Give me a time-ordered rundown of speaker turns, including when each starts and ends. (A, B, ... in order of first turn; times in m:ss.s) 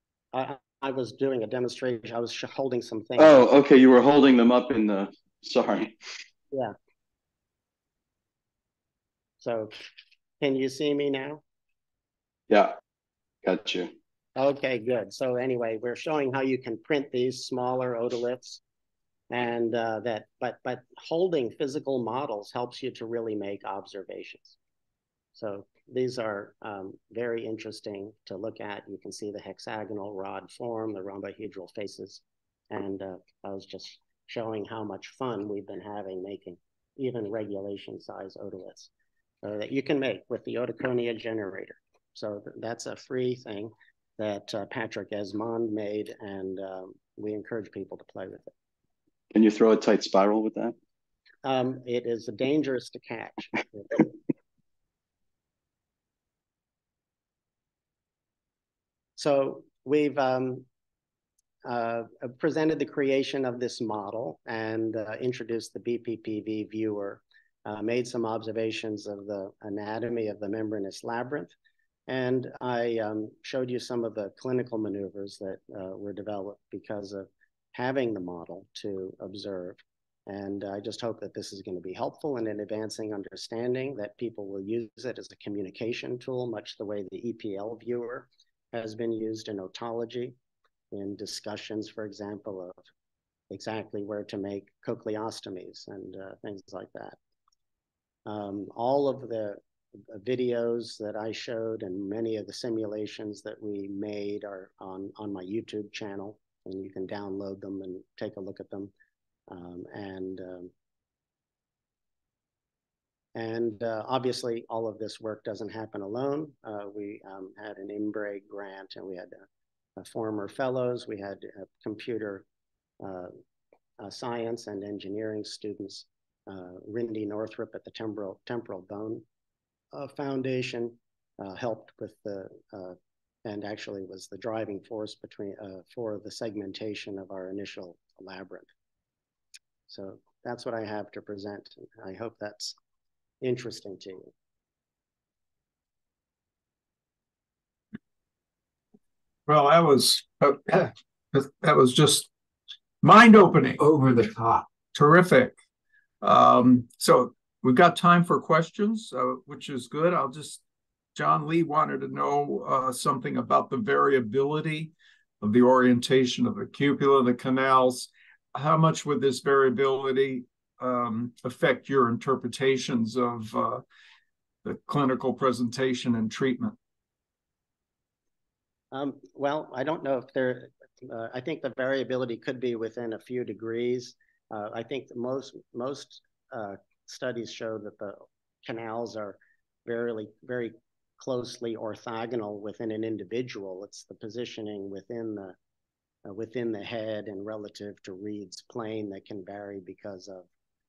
0:00.3-0:03.4 A
0:03.2-0:05.9 B
0:09.4-0:09.8 A
0:10.4-0:11.4 A
0:12.5-0:12.8 B
0:13.4-0:13.9 B
0:14.4-0:18.6 A
0:19.3-0:24.6 A
0:25.4-0:38.9 A
0:39.4-0:48.5 A
0:49.3-0:50.7 B
0:51.4-0:54.1 A
0:59.2-1:00.6 A
1:01.6-1:11.5 A
1:12.1-1:30.3 A
1:30.9-1:32.8 A
1:33.5-1:37.2 A
1:38.2-1:39.6 A
1:40.1-1:48.9 A
1:49.5-1:50.7 A
1:53.3-1:59.4 A
2:00.0-2:02.4 A
2:03.0-2:03.4 A
2:04.0-2:09.2 A
2:09.9-2:18.7 A
2:19.9-2:22.7 A
2:23.4-2:24.3 A
2:29.4-2:32.3 C
2:33.0-2:35.6 C
2:36.2-2:40.6 C
2:41.1-2:53.8 C
2:54.6-2:56.7 C
2:58.9-3:15.5 A
3:16.2-3:20.5 A